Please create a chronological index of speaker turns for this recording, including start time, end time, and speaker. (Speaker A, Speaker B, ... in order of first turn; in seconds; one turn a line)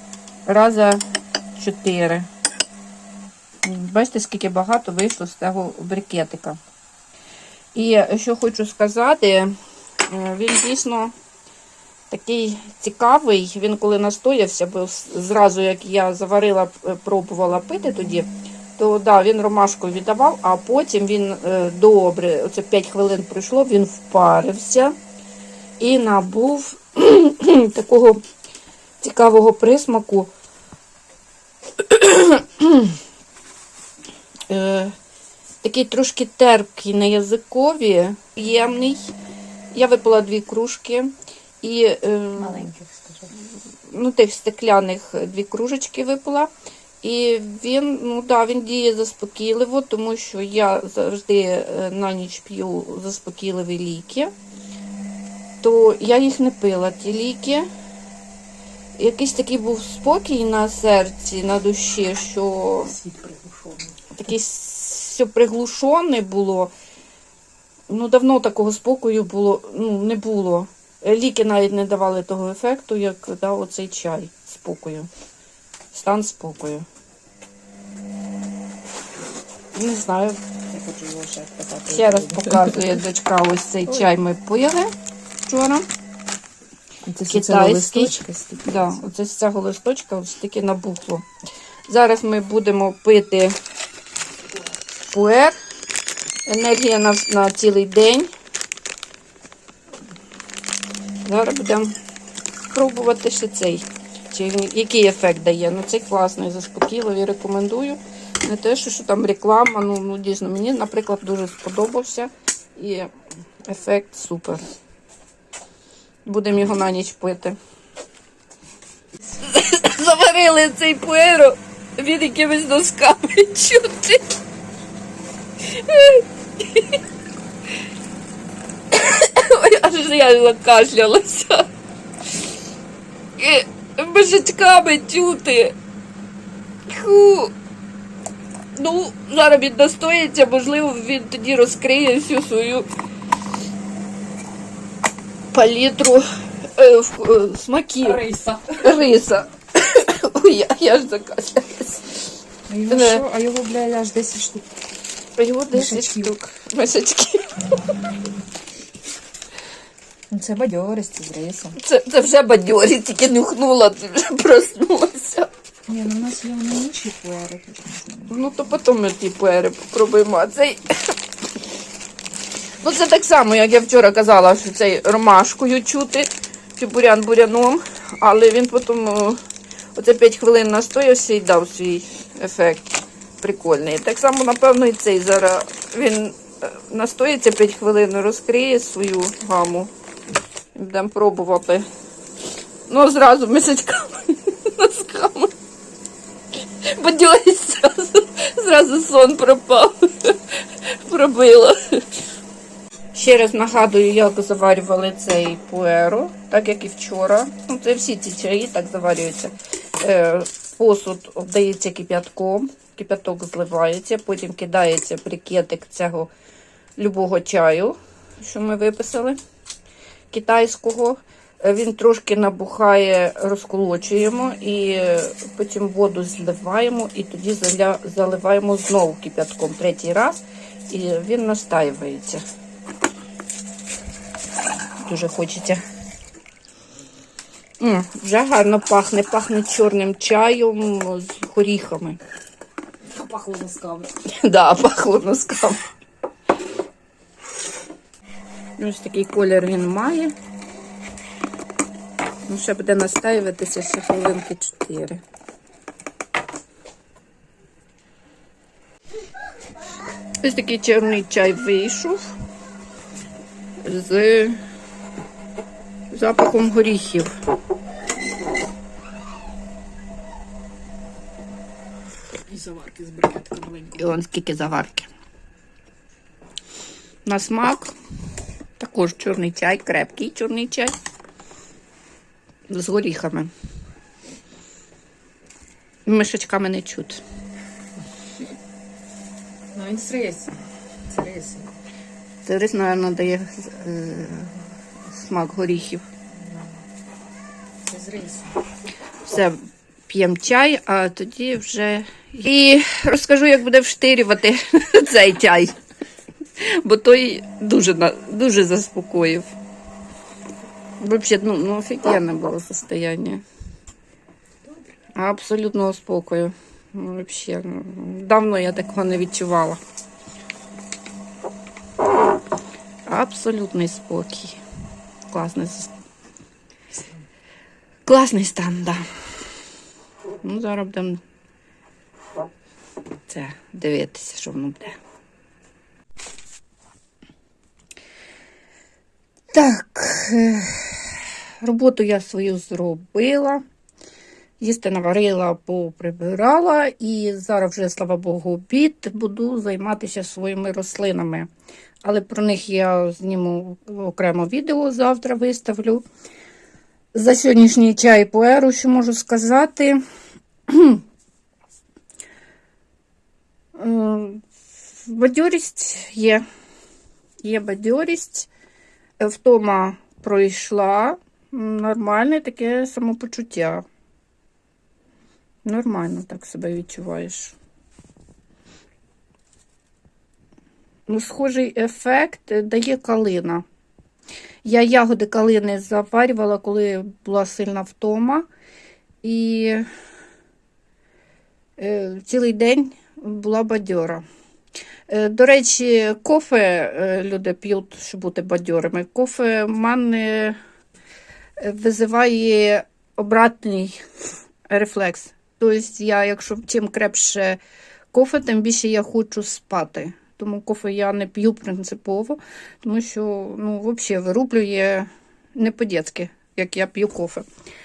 Speaker A: 0.5-1.0
Speaker A: 1.6-2.3
Speaker A: 3.6-6.6
Speaker A: 7.8-9.5
Speaker A: 10.1-11.1
Speaker A: 12.1-24.9
Speaker A: 25.8-28.2
Speaker A: 29.0-30.3
Speaker A: 31.8-33.0
Speaker A: 34.5-34.9
Speaker A: 35.6-39.1
Speaker A: 39.7-41.1
Speaker A: 41.6-42.7
Speaker B: 42.4-43.3
Speaker A: 43.9-46.5
Speaker A: 47.0-54.3
Speaker A: 55.6-57.7
Speaker A: 59.0-63.0
Speaker B: 63.0-64.0
Speaker A: 64.1-66.7
Speaker A: 67.9-75.1
Speaker A: 75.9-76.9
Speaker A: 79.8-80.4
Speaker B: 80.7-82.8
Speaker A: 81.9-84.9
Speaker A: 85.5-85.9
Speaker B: 87.1-89.0
Speaker A: 87.3-91.3
Speaker A: 91.9-93.6
Speaker A: 95.1-95.5
Speaker A: 96.5-98.3
Speaker A: 101.2-101.9
Speaker A: 102.7-113.1
Speaker A: 113.6-114.6
Speaker A: 116.3-117.6
Speaker A: 119.3-124.3
Speaker A: 125.7-127.0
Speaker A: 128.9-131.7
Speaker A: 133.4-135.8
Speaker A: 136.9-137.5
Speaker A: 138.8-142.9
Speaker A: 145.5-152.2
Speaker B: 148.1-148.8
Speaker B: 152.7-154.7
Speaker A: 152.9-153.2
Speaker A: 155.4-157.8
Speaker B: 155.7-156.4
Speaker B: 160.3-161.8
Speaker A: 161.8-165.5
Speaker B: 165.9-168.3
Speaker A: 168.3-170.8
Speaker A: 172.8-179.4
Speaker A: 179.9-189.9
Speaker A: 190.8-191.9
Speaker A: 192.9-195.5
Speaker A: 196.8-202.0
Speaker A: 203.2-216.3
Speaker A: 217.0-219.4
Speaker A: 220.3-232.4
Speaker A: 235.0-235.8
Speaker A: 237.8-242.2
Speaker B: 243.1-244.1
Speaker A: 244.3-245.8
Speaker A: 248.8-250.3
Speaker A: 252.5-255.2
Speaker A: 260.4-262.2
Speaker A: 263.8-264.6
Speaker A: 266.1-267.3
Speaker B: 272.5-274.0
Speaker A: 273.9-275.1
Speaker A: 277.3-277.9
Speaker A: 278.8-280.9
Speaker A: 282.7-283.5
Speaker A: 286.1-287.2
Speaker B: 289.7-290.6
Speaker B: 291.1-291.7
Speaker A: 292.4-296.0
Speaker B: 297.9-298.6
Speaker A: 299.2-299.6
Speaker A: 300.1-305.8
Speaker A: 306.6-309.6
Speaker A: 311.0-313.4
Speaker A: 315.2-319.8
Speaker A: 323.1-324.6
Speaker A: 325.3-325.9
Speaker A: 328.1-329.1
Speaker A: 330.4-331.2
Speaker A: 333.3-335.0
Speaker A: 339.5-343.6
Speaker A: 344.6-351.5
Speaker A: 352.0-356.0
Speaker A: 357.1-360.0
Speaker A: 360.7-361.0
Speaker A: 363.8-364.4
Speaker A: 365.0-366.4
Speaker A: 367.4-368.5
Speaker A: 369.2-373.8
Speaker A: 375.7-377.6
Speaker A: 381.1-383.6
Speaker A: 384.6-388.4
Speaker A: 389.2-389.9
Speaker A: 391.8-394.2
Speaker A: 395.1-400.6
Speaker A: 401.6-404.0
Speaker A: 404.7-407.6
Speaker A: 408.1-417.5